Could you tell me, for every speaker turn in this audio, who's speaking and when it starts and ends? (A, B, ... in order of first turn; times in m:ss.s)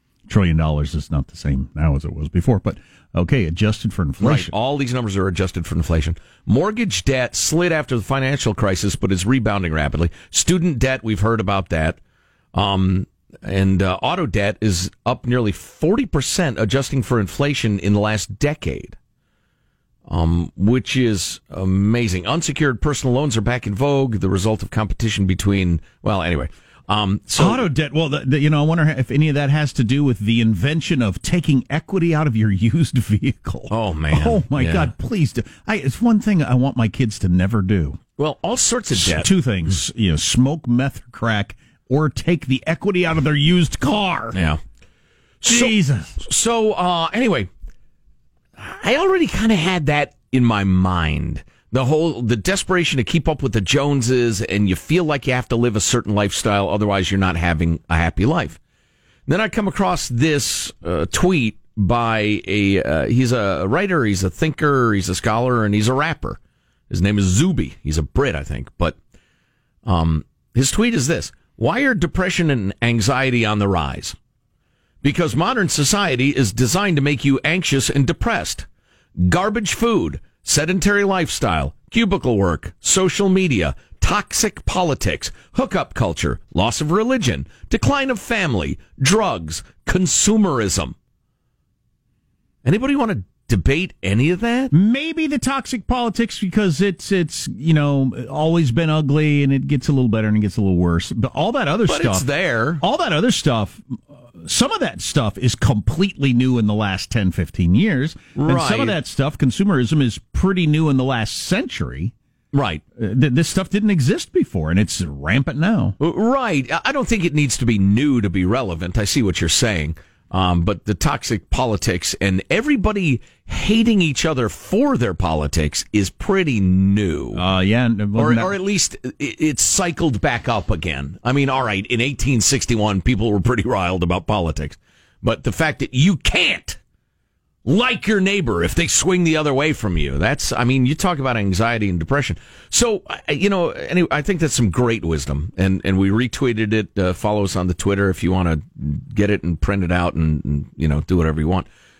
0:00.3-0:04.5 A
0:04.2-0:12.0 B
0:12.5-0:19.0 B
0:20.1-0:27.6 B
0:27.4-0:38.0 A
0:33.7-0:34.9 B
0:38.2-0:39.7 B
0:38.9-0:44.4 A
0:44.3-0:44.6 B
0:45.4-0:47.5 B
0:45.4-0:46.2 A
0:48.6-0:58.6 B
0:59.3-1:06.4 B
1:06.9-1:09.0 B
1:09.8-1:14.2 B
1:15.0-1:18.6 B
1:19.2-1:30.9 B
1:32.6-1:34.7 B
1:34.7-1:42.2 A
1:41.9-1:42.8 B
1:42.8-1:52.1 A
1:48.4-1:49.0 B
1:52.5-1:52.8 B
1:53.0-1:56.0 A
1:56.0-2:07.4 B
2:07.3-2:08.5 A
2:08.2-2:16.8 B
2:17.6-2:31.7 B